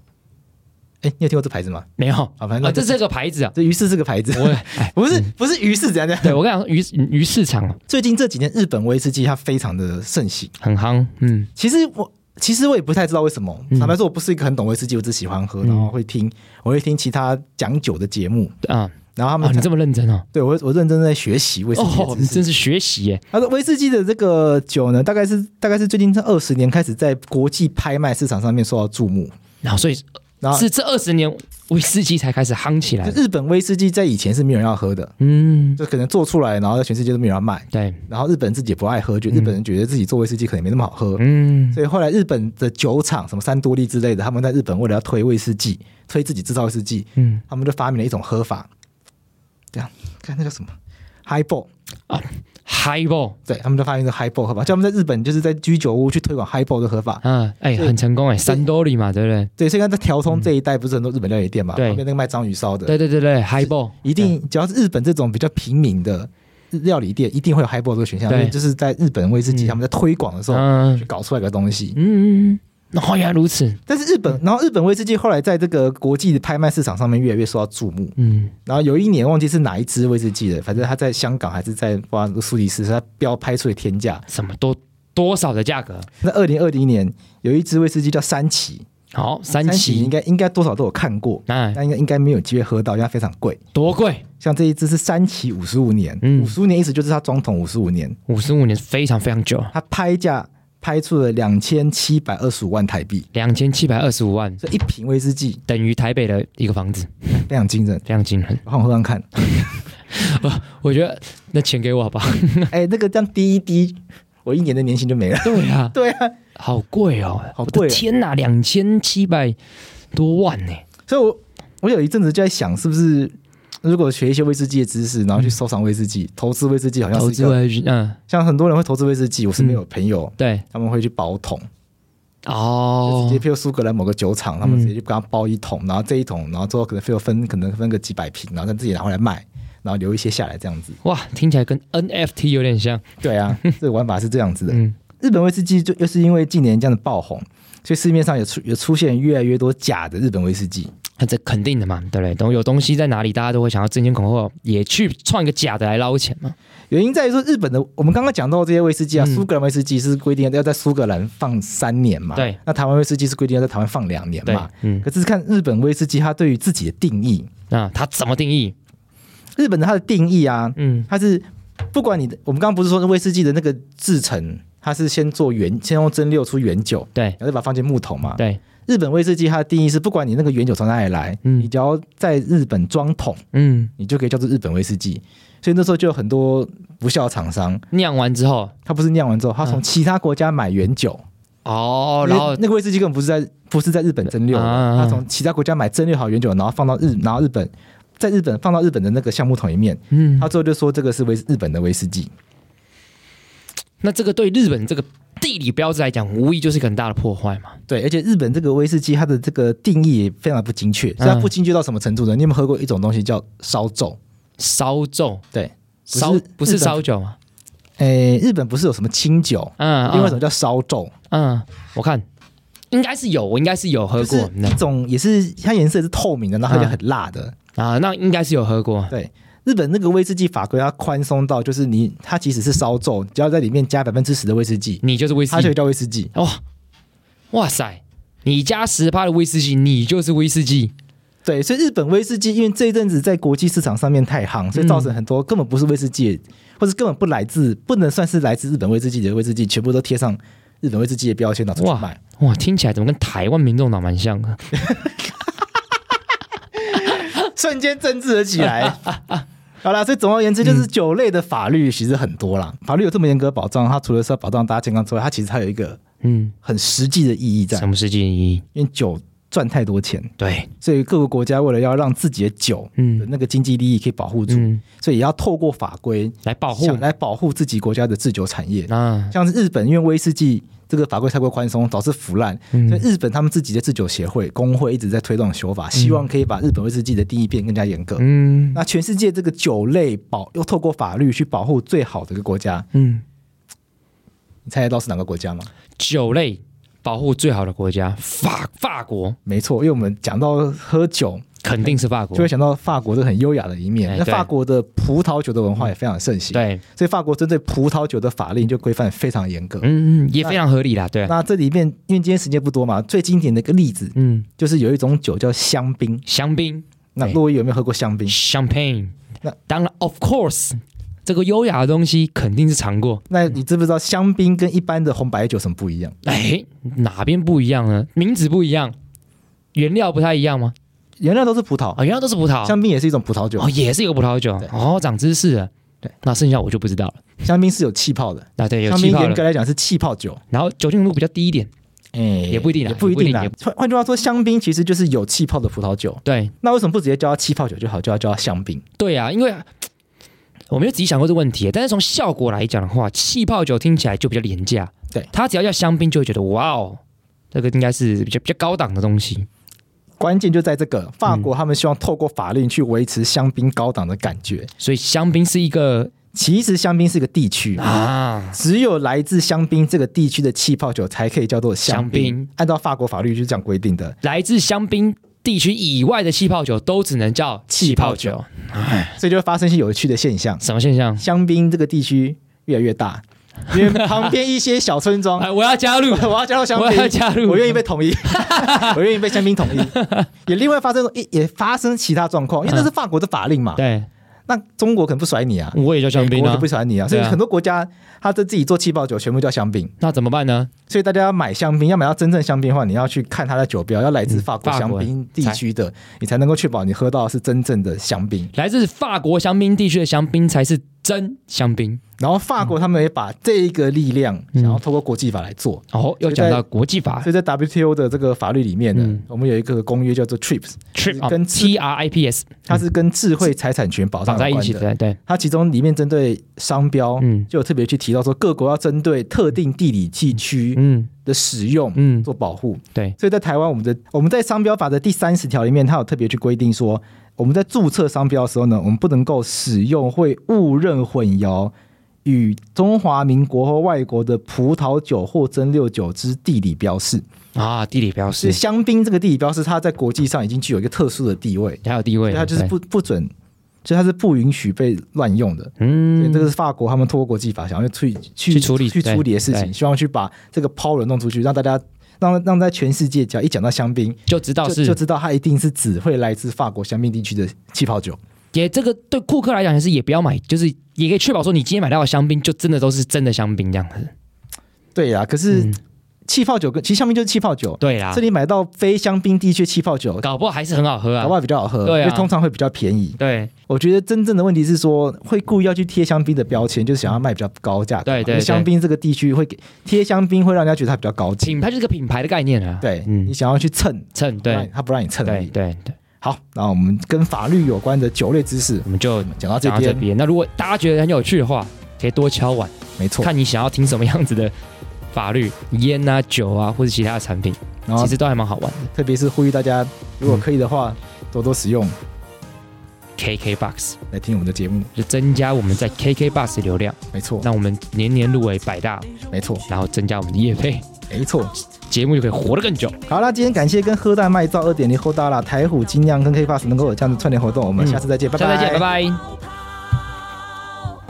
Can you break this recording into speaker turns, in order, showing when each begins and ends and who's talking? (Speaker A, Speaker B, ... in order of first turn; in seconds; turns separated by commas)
Speaker A: 1.0-1.9, Speaker B: 2.0-3.5, Speaker A: 2.4-3.0, Speaker A: 3.5-6.4, Speaker B: 4.3-5.2, Speaker B: 6.2-7.8, Speaker A: 7.9-10.5, Speaker B: 10.6-11.5, Speaker A: 11.6-18.5, Speaker B: 15.6-15.9, Speaker B: 18.6-20.2, Speaker A: 19.1-19.7, Speaker A: 20.3-22.4, Speaker B: 21.7-23.2, Speaker A: 23.3-29.3, Speaker B: 29.6-33.2, Speaker A: 30.4-30.7, Speaker A: 33.0-35.1, Speaker B: 35.2-35.8, Speaker A: 35.8-48.7, Speaker B: 37.7-38.0, Speaker B: 41.2-41.8, Speaker B: 47.1-47.4, Speaker A: 49.7-50.7, Speaker A: 51.2-51.7, Speaker B: 52.1-53.4, Speaker A: 53.5-57.2, Speaker B: 57.2-59.5, Speaker A: 59.6-62.9, Speaker B: 61.8-62.0, Speaker B: 62.9-64.3, Speaker A: 63.6-72.0, Speaker B: 68.3-68.5, Speaker B: 69.5-69.8, Speaker B: 70.5-71.0, Speaker B: 71.9-73.8, Speaker A: 73.9-84.2, Speaker B: 78.2-78.5, Speaker B: 84.3-86.1, Speaker A: 86.2-88.8, Speaker B: 89.1-90.1, Speaker A: 89.6-93.6, Speaker B: 91.5-91.8, Speaker B: 93.7-94.2, Speaker A: 94.4-98.2, Speaker B: 96.2-96.5, Speaker B: 98.3-99.7, Speaker A: 99.7-103.2, Speaker B: 103.3-104.6, Speaker A: 104.6-105.6, Speaker B: 105.7-107.4, Speaker A: 107.4-108.0, Speaker B: 108.0-108.6, Speaker A: 108.6-109.3, Speaker B: 110.1-112.7, Speaker A: 112.7-116.3, Speaker B: 115.4-115.9, Speaker B: 116.5-119.6, Speaker A: 117.5-118.0, Speaker B: 120.1-120.8, Speaker A: 121.1-127.6, Speaker B: 127.1-128.2, Speaker A: 128.3-131.7, Speaker B: 130.4-130.6, Speaker B: 132.4-133.4, Speaker A: 133.0-141.0, Speaker B: 134.6-134.9, Speaker B: 141.0-143.7, Speaker A: 143.2-150.9, Speaker B: 144.7-144.9, Speaker B: 151.2-156.6, Speaker A: 156.9-167.5, Speaker B: 159.2-159.4, Speaker B: 164.4-165.1, Speaker B: 167.7-168.7, Speaker A: 169.6-183.4, Speaker B: 170.8-171.1, Speaker B: 181.4-181.7, Speaker B: 183.5-183.9, Speaker A: 184.0-187.8, Speaker B: 187.9-188.7, Speaker A: 188.8-191.2, Speaker B: 191.6-192.6, Speaker A: 192.2-202.3, Speaker B: 194.4-195.2, Speaker B: 200.1-200.5, Speaker B: 204.0-207.8, Speaker A: 207.9-214.2, Speaker B: 211.2-211.5, Speaker B: 214.6-215.4, Speaker A: 215.5-217.0, Speaker B: 216.1-217.4, Speaker A: 218.0-221.1, Speaker B: 219.8-220.4, Speaker B: 221.3-222.2, Speaker B: 222.9-224.8, Speaker A: 224.2-227.5, Speaker B: 226.7-227.0, Speaker B: 227.8-229.1, Speaker A: 229.1-236.3, Speaker B: 235.0-235.8, Speaker B: 236.3-236.6, Speaker B: 237.5-240.9, Speaker A: 241.4-252.2, Speaker B: 244.7-245.1, Speaker B: 251.8-254.7, Speaker A: 254.7-255.1, Speaker A: 256.9-259.0, Speaker B: 258.6-259.4, Speaker A: 259.8-266.0, Speaker B: 266.2-266.5, Speaker A: 266.6-267.9, Speaker B: 267.7-268.6, Speaker A: 268.7-292.9, Speaker B: 270.4-270.7, Speaker B: 273.0-273.3, Speaker B: 274.5-274.8, Speaker B: 276.4-277.1, Speaker B: 278.9-279.3, Speaker B: 282.7-283.0, Speaker B: 285.9-286.2, Speaker B: 288.2-288.8, Speaker B: 292.9-293.2, Speaker A: 294.7-295.7, Speaker B: 296.0-299.4, Speaker A: 299.4-309.9, Speaker B: 301.6-302.5, Speaker B: 304.1-304.5, Speaker B: 306.5-306.8, Speaker B: 309.8-311.3, Speaker A: 311.2-316.2, Speaker B: 314.1-314.5, Speaker B: 316.2-317.4, Speaker A: 317.1-318.3, Speaker B: 318.3-319.1, Speaker B: 319.7-323.2, Speaker A: 323.3-326.1, Speaker B: 326.2-328.9, Speaker B: 329.7-330.7, Speaker A: 331.2-332.0, Speaker B: 331.9-332.8, Speaker A: 332.6-333.7, Speaker B: 333.6-335.7, Speaker B: 336.2-337.2, Speaker A: 337.4-340.4, Speaker B: 338.6-339.4, Speaker B: 340.5-341.7, Speaker A: 342.1-348.8, Speaker B: 342.5-343.5, Speaker B: 346.2-346.5, Speaker B: 349.0-349.7, Speaker B: 350.7-357.0, Speaker B: 357.5-359.5, Speaker A: 360.2-364.7, Speaker B: 364.8-366.1, Speaker A: 366.3-367.9, Speaker B: 367.8-368.6, Speaker A: 368.5-374.1, Speaker B: 371.9-372.5, Speaker B: 374.2-379.2, Speaker A: 377.7-378.4, Speaker A: 379.2-380.6, Speaker B: 380.6-381.2, Speaker A: 381.2-385.5, Speaker B: 383.7-384.3, Speaker B: 385.4-390.3, Speaker A: 386.1-393.8, Speaker B: 393.8-394.1, Speaker A: 394.5-399.9, Speaker B: 395.7-397.4, Speaker B: 400.0-400.7, Speaker A: 400.9-408.5, Speaker B: 404.3-405.6, Speaker B: 408.5-412.0, Speaker A: 412.2-416.6, Speaker B: 414.5-414.8, Speaker B: 415.9-417.3, Speaker A: 417.2-421.8, Speaker B: 418.9-419.2, Speaker B: 420.9-422.8, Speaker A: 422.6-441.7, Speaker B: 424.2-425.2, Speaker B: 427.2-427.5, Speaker B: 430.7-431.1, Speaker B: 431.9-432.3, Speaker A: 442.2-447.2, Speaker B: 447.5-448.6, Speaker A: 448.4-453.3, Speaker B: 451.8-452.7, Speaker A: 453.8-468.2, Speaker B: 455.8-456.5, Speaker B: 458.5-459.7, Speaker B: 464.3-465.0, Speaker B: 468.5-474.1, Speaker A: 474.9-475.7, Speaker B: 475.5-475.8, Speaker A: 476.3-480.2, Speaker B: 477.8-478.2, Speaker B: 480.2-482.3, Speaker A: 481.2-491.6, Speaker B: 483.2-483.5, Speaker B: 488.0-488.7, Speaker B: 491.4-493.3, Speaker A: 492.8-495.5, Speaker B: 494.1-494.7, Speaker B: 495.2-495.9, Speaker A: 496.2-500.0, Speaker B: 498.8-504.5, Speaker A: 503.0-503.3, Speaker B: 505.1-508.9, Speaker A: 507.9-508.1, Speaker A: 508.9-512.0, Speaker B: 513.2-514.0, Speaker A: 514.1-514.9, Speaker B: 514.9-519.1, Speaker A: 517.1-517.5, Speaker A: 519.3-519.6, Speaker B: 519.7-520.9, Speaker A: 521.1-521.5, Speaker B: 521.9-522.9, Speaker A: 523.1-528.9, Speaker B: 527.8-529.2